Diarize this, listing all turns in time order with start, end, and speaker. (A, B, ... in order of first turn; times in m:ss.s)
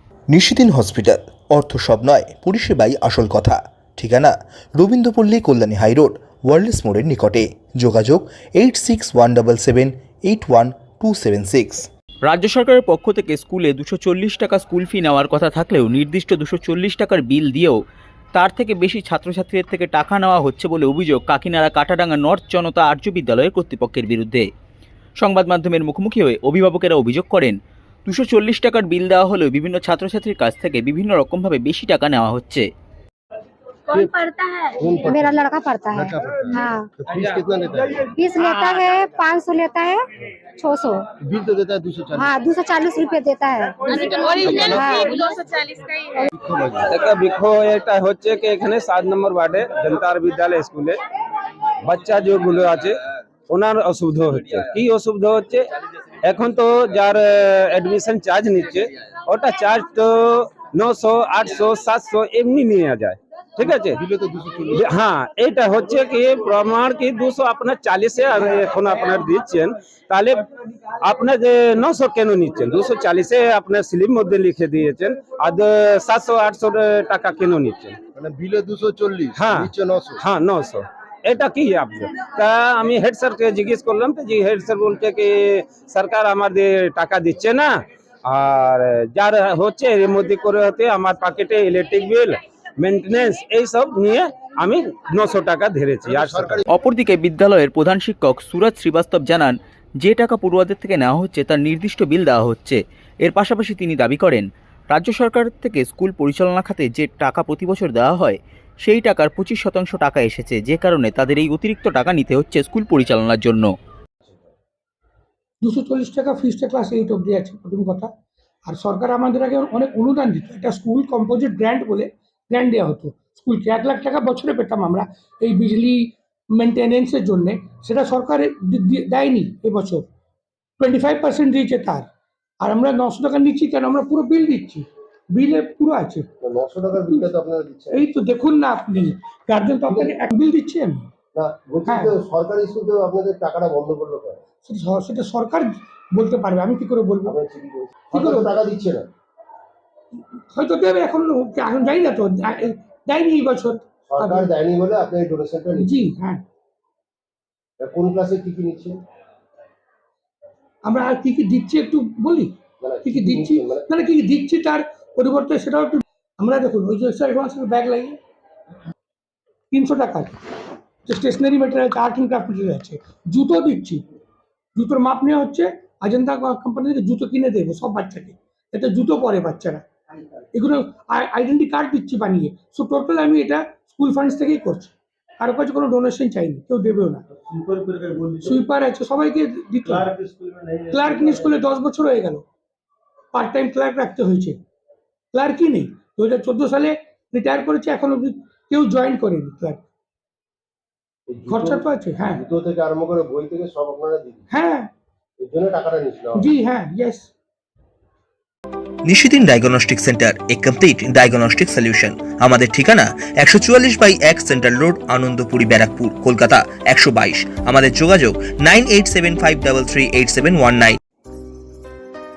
0:00.3-0:11.9 A
0:12.2-0:17.8 B
0:18.3-0:24.5 B
0:25.2-0:32.7 B
0:33.9-0:35.0 C
0:33.9-0:34.2 D
0:34.8-0:38.0 D
0:35.0-0:36.9 E
0:38.1-0:40.1 E
0:40.6-0:41.1 E
0:41.2-0:42.3 D
0:42.2-0:43.8 E
0:43.9-0:46.2 C
0:44.2-0:44.9 D
0:44.5-0:45.1 E
0:46.5-0:46.9 D
0:46.9-0:51.0 F
0:51.9-0:53.0 F
0:53.5-0:55.7 F
0:56.2-1:04.0 F
1:03.9-1:04.8 D
1:04.7-1:10.5 F
1:11.0-1:18.0 F
1:18.2-1:20.2 D
1:19.4-1:27.7 F
1:28.3-1:36.6 F
1:36.2-1:36.6 D
1:36.7-1:53.7 B
1:55.6-1:58.1 G
1:58.7-2:10.0 G
2:10.8-2:12.1 G
2:12.6-2:16.3 G
2:16.4-2:18.1 D
2:17.0-2:17.3 G
2:17.9-2:21.0 G
2:19.9-2:20.2 D
2:21.4-2:24.4 D
2:21.9-2:22.2 G
2:24.6-2:27.4 G
2:27.2-2:29.1 D
2:28.1-2:28.6 G
2:30.4-2:34.5 G
2:34.1-2:35.9 D
2:35.8-2:36.4 G
2:37.8-2:39.0 D
2:40.8-2:42.5 G
2:42.8-2:43.9 D
2:43.0-2:48.2 G
2:49.7-2:50.4 G
2:51.1-2:54.0 G
2:54.8-2:59.8 G
3:00.5-3:07.2 G
3:08.4-3:10.1 G
3:10.9-3:12.4 G
3:13.3-3:14.6 G
3:15.3-3:19.8 G
3:21.3-3:24.5 D
3:21.5-3:22.4 G
3:24.5-3:24.9 G
3:25.4-3:26.5 D
3:26.4-3:27.3 G
3:29.1-3:41.0 A